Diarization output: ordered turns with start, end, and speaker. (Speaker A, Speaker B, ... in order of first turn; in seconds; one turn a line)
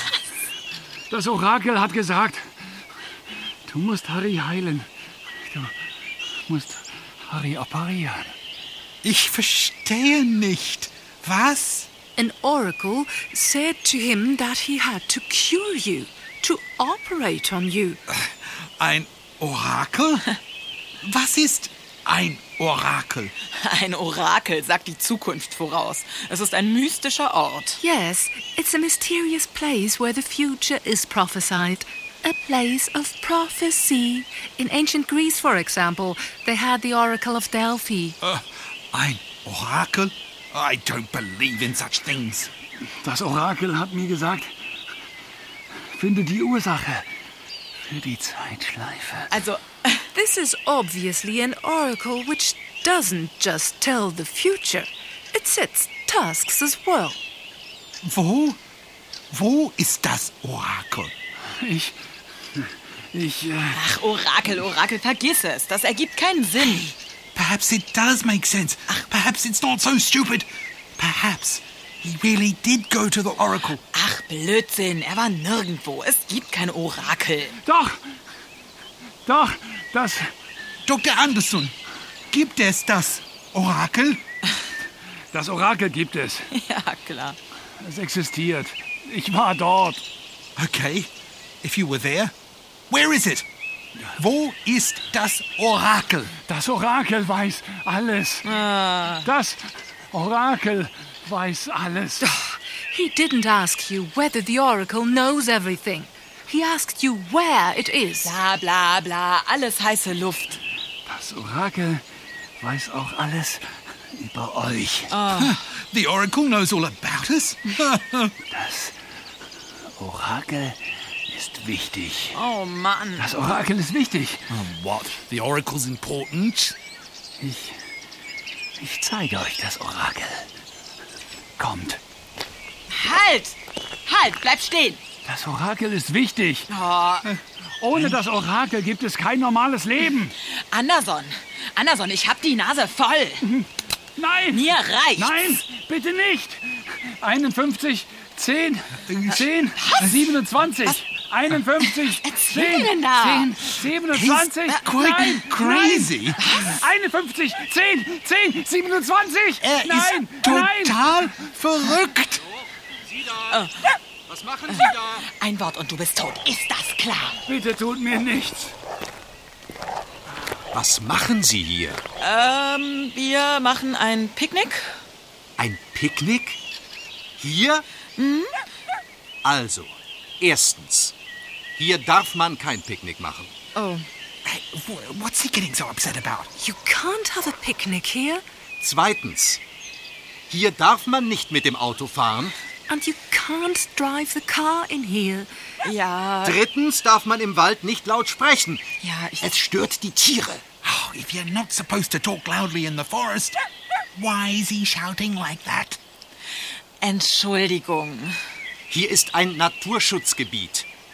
Speaker A: 1.1-2.5
Speaker A: 3.7-4.9
Speaker A: 6.5-8.3
Speaker B: 9.0-11.9
Speaker C: 12.2-18.0
Speaker B: 18.1-20.3
Speaker B: 21.0-23.3
Speaker D: 23.6-27.8
Speaker C: 27.8-38.2
Speaker B: 38.2-42.5
Speaker A: 43.0-44.5
Speaker A: 45.9-47.1
Speaker A: 47.9-49.3
Speaker D: 49.3-50.0
Speaker C: 50.1-57.2
Speaker B: 58.0-58.6
Speaker B: 59.3-61.1
Speaker A: 61.6-61.9
Speaker A: 62.6-63.8
Speaker D: 63.7-66.9
Speaker B: 67.3-73.8
Speaker D: 73.9-77.6
Speaker A: 77.6-78.0
Speaker A: 79.3-80.3
Speaker B: 80.9-81.7
Speaker B: 82.3-84.2
Speaker A: 85.3-86.5
Speaker D: 86.5-87.4
Speaker A: 87.8-90.0
Speaker B: 90.6-91.1
Speaker B: 91.6-92.3
Speaker B: 92.9-93.5
Speaker B: 94.1-96.3
Speaker A: 96.4-98.5
Speaker D: 98.5-99.3
Speaker A: 99.2-102.3
Speaker C: 102.2-108.3
Speaker D: 108.2-110.6
Speaker A: 111.1-112.0
Speaker A: 112.6-115.1
Speaker D: 115.1-115.6
Speaker B: 115.3-118.3
Speaker A: 118.5-118.9
Speaker A: 120.0-120.8
Speaker A: 121.3-122.3
Speaker D: 122.3-123.3
Speaker A: 123.2-124.5
Speaker B: 124.5-126.8
Speaker A: 127.4-127.8
Speaker A: 128.8-130.5
Speaker A: 131.6-132.0
Speaker D: 132.9-135.0
Speaker A: 135.3-136.7
Speaker D: 136.7-137.3
Speaker A: 137.8-140.3
Speaker B: 137.9-138.2
Speaker D: 140.5-143.4
Speaker A: 143.4-161.0
Speaker D: 144.5-145.6
Speaker B: 149.1-149.5
Speaker D: 149.8-150.1
Speaker D: 151.8-153.7
Speaker B: 154.1-156.4
Speaker D: 154.7-154.9
Speaker D: 156.4-156.7
Speaker B: 159.6-162.4
Speaker D: 163.5-163.9
Speaker E: 164.3-165.2
Speaker D: 164.7-167.4
Speaker A: 167.5-168.7
Speaker E: 170.7-172.0
Speaker D: 172.2-174.9
Speaker E: 175.6-176.6
Speaker E: 177.4-177.8
Speaker D: 178.2-178.5
Speaker E: 179.4-181.1
Speaker E: 181.8-183.5
Speaker D: 183.8-184.1
Speaker B: 184.4-186.5
Speaker C: 186.6-188.4
Speaker E: 188.8-189.6
Speaker E: 190.5-192.6
Speaker C: 192.9-195.5
Speaker D: 195.8-196.6
Speaker E: 196.4-198.8
Speaker D: 199.0-199.6
Speaker E: 199.4-200.6
Speaker B: 200.8-203.6
Speaker B: 204.2-206.0
Speaker D: 207.0-208.3
Speaker E: 208.9-210.9